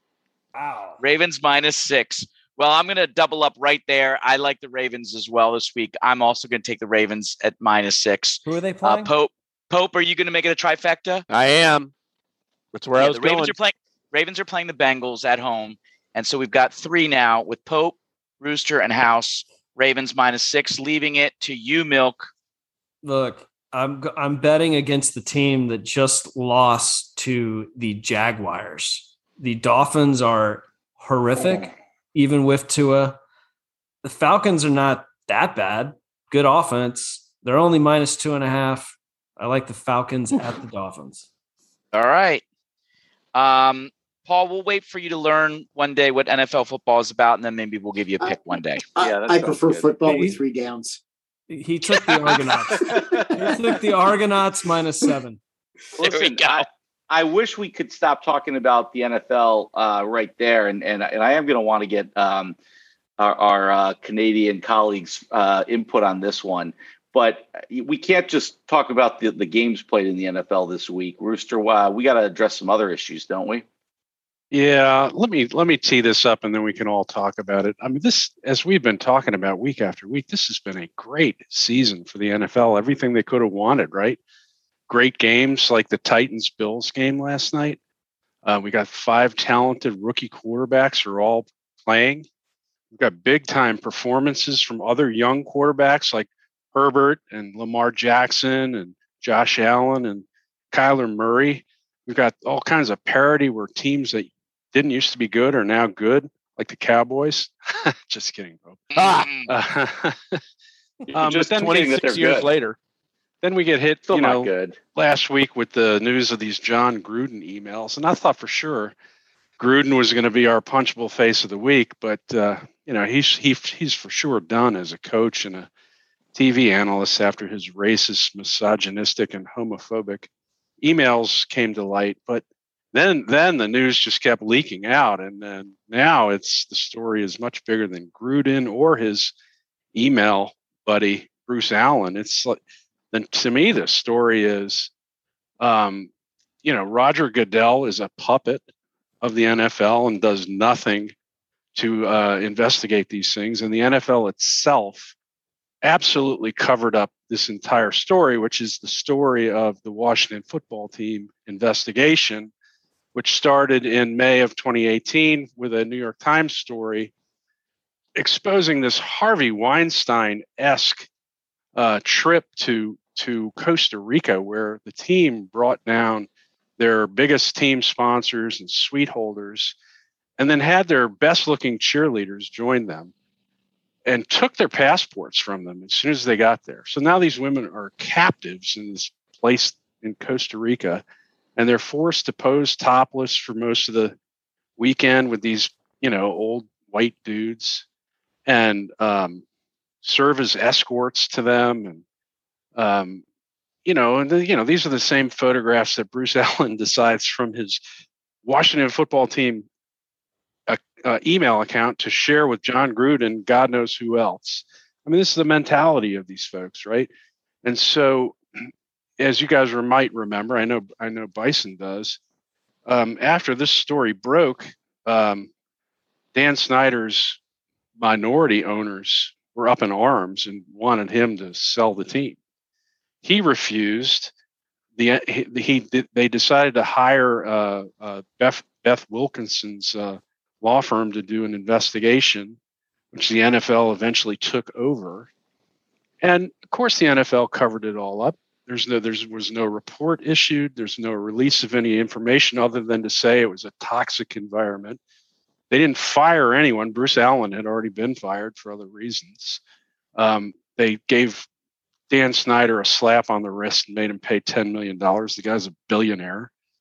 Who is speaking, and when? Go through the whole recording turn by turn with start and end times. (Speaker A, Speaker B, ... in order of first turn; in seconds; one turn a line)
Speaker A: 0.5-1.0
Speaker B: 1.0-11.2
Speaker A: 8.4-9.1
Speaker C: 11.3-11.9
Speaker C: 12.7-13.5
Speaker B: 13.0-22.3
Speaker A: 23.0-33.2
Speaker A: 34.0-41.3
Speaker B: 41.9-42.4
Speaker B: 43.3-48.8
Speaker D: 48.2-51.0
Speaker E: 49.0-50.2
Speaker A: 50.1-50.4
Speaker A: 51.5-55.4
Speaker E: 52.2-53.9
Speaker D: 52.9-53.5
Speaker E: 56.0-62.5
Speaker B: 56.0-56.6
Speaker E: 63.2-73.6
Speaker F: 74.5-84.2
Speaker F: 84.9-87.8
Speaker F: 88.4-92.3
Speaker F: 92.9-108.8
Speaker B: 108.9-109.5
Speaker C: 109.0-109.3
Speaker F: 109.5-110.4
Speaker E: 111.1-112.5
Speaker F: 111.1-111.9
Speaker C: 111.5-112.8
Speaker F: 113.4-118.9
Speaker E: 114.1-114.8
Speaker F: 119.6-125.7
Speaker F: 126.3-130.3
Speaker F: 130.8-139.3
Speaker F: 139.9-142.6
Speaker F: 143.1-144.9
Speaker F: 145.6-146.1
Speaker F: 146.6-148.6
Speaker F: 149.2-151.1
Speaker F: 151.7-155.1
Speaker F: 155.8-162.5
Speaker F: 163.1-167.1
Speaker F: 168.2-171.1
Speaker F: 171.7-179.7
Speaker F: 180.4-183.1
Speaker F: 184.1-191.0
Speaker F: 191.6-194.1
Speaker F: 194.8-197.8
Speaker F: 198.4-199.4
Speaker F: 200.0-202.0
Speaker F: 202.8-203.2
Speaker F: 203.8-207.8
Speaker F: 208.4-209.7
Speaker F: 210.7-217.1
Speaker F: 217.6-218.4
Speaker F: 219.2-222.2
Speaker F: 222.8-225.5
Speaker F: 226.3-227.4
Speaker F: 228.0-232.4
Speaker F: 233.2-234.3
Speaker F: 235.0-242.6
Speaker F: 243.1-245.3
Speaker F: 246.2-255.0
Speaker F: 255.7-259.6
Speaker F: 260.1-261.5
Speaker F: 262.1-266.5